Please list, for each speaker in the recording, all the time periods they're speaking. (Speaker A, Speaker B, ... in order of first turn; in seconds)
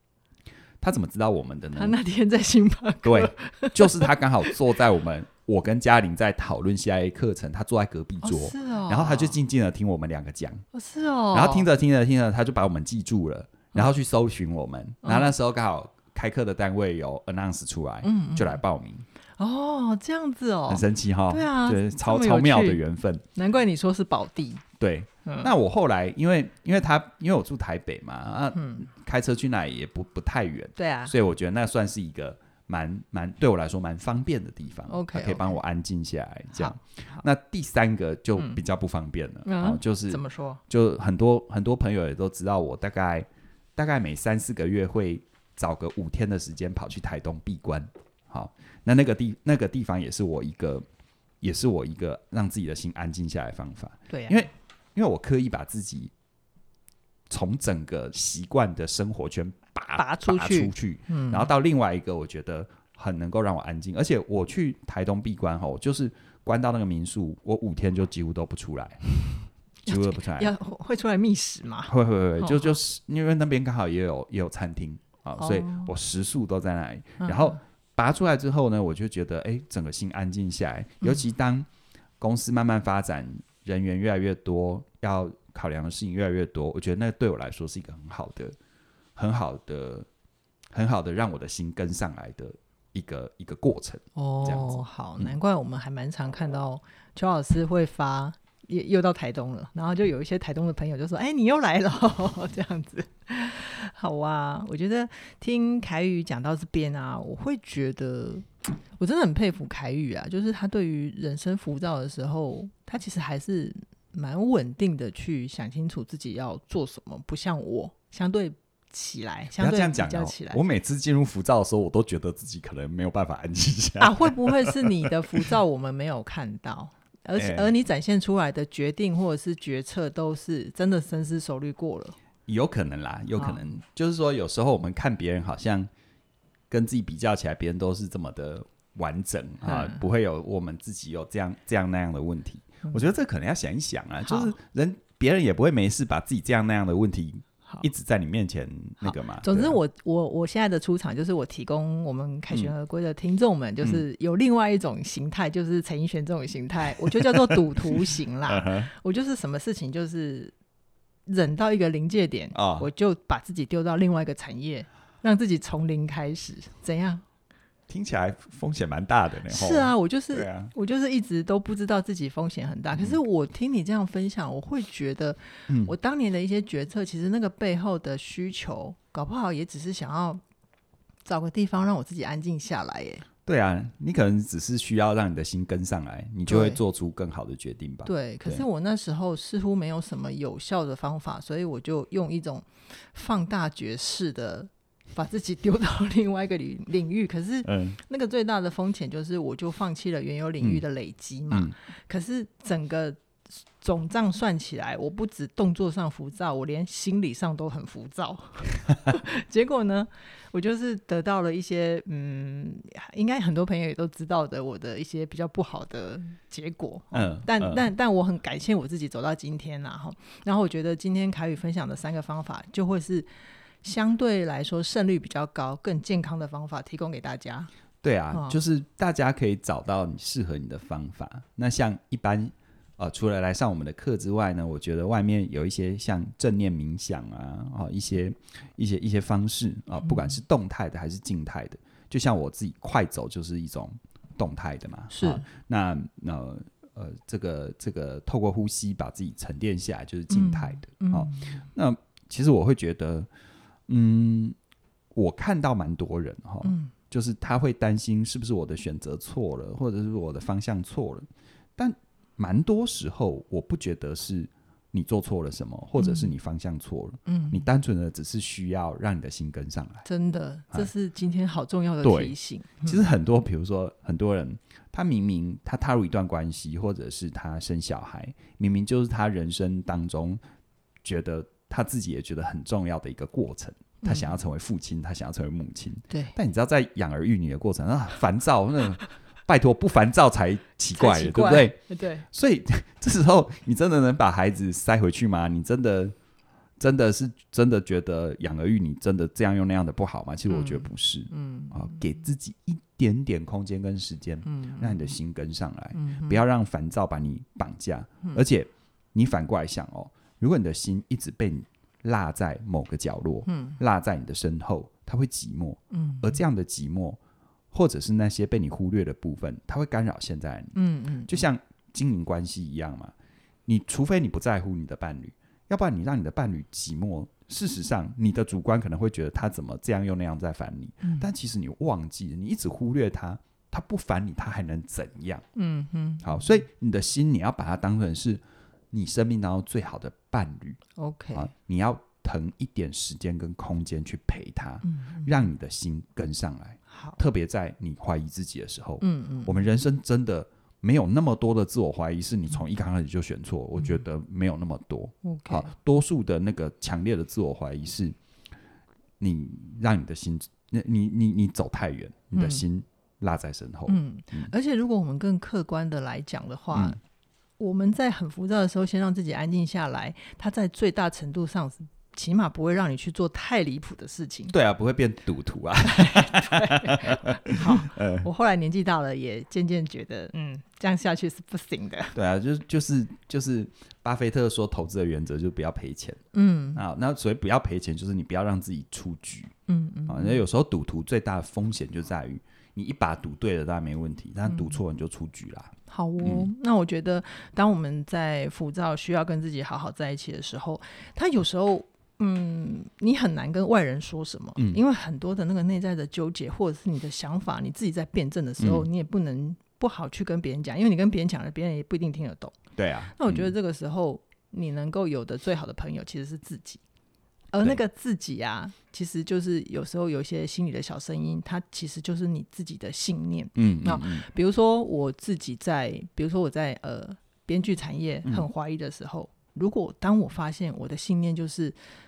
Speaker A: 0.8-2.0, 3.0-10.7, 11.3-19.1, 20.7-23.2, 24.8-50.9, 51.4-56.1, 57.3-69.0, 69.9-70.5, 71.9-81.7, 82.2-88.5, 89.2-90.1, 90.7-95.3, 119.6-125.5, 127.4-127.7, 132.5-135.9, 136.7-149.8, 157.2-158.9, 162.5-162.9, 167.9-170.7, 172.9-173.2, 183.5-188.7, 197.7-198.0, 217.1-217.9, 228.0-253.3, 253.9-254.6, 255.2-270.1, 272.0-280.4, 281.0-296.1, 296.8-317.2, 317.7-320.8, 321.3-323.1, 323.7-335.4, 336.2-340.8, 341.3-358.2, 359.2-364.5, 366.7-367.0, 374.5-378.3, 382.1-386.2, 386.8-389.5, 390.1-396.5, 408.6-408.9, 412.8-413.5, 423.6-424.3
Speaker B: 1.8-4.6, 8.2-9.4, 10.7-11.7, 15.0-15.3, 18.0-18.6, 19.4-22.8, 23.4-24.6, 25.3-25.5, 28.6-28.9, 30.8-31.1, 34.9-35.6, 36.5-37.2, 39.5-40.6, 54.1-54.5, 60.0-61.5, 69.9-72.8, 75.4-75.9, 77.2-77.6, 94.2-120.6, 124.0-132.2, 139.7-140.0, 144.2-144.5, 149.0-160.5, 161.3-167.2, 169.5-180.4, 181.2-183.2, 186.5-186.8, 188.1-203.2, 203.8-223.3, 223.8-227.7, 245.1-245.5, 250.3-251.7, 256.6-256.9, 266.0-266.3, 267.3-267.7, 270.1-273.1, 284.0-284.3, 286.1-286.4, 290.9-292.3, 300.5-302.0, 304.4-305.1, 305.9-306.4, 313.5-313.8, 315.9-316.4, 320.8-321.4, 331.0-331.3, 335.6-336.4, 341.0-341.5, 344.9-345.4, 346.9-347.2, 349.0-349.7, 355.2-355.7, 362.4-362.6, 363.9-367.0, 367.6-374.5, 375.8-382.1, 386.3-386.8, 389.7-390.4, 394.5-394.8, 395.9-412.6, 413.1-416.8, 417.5-431.8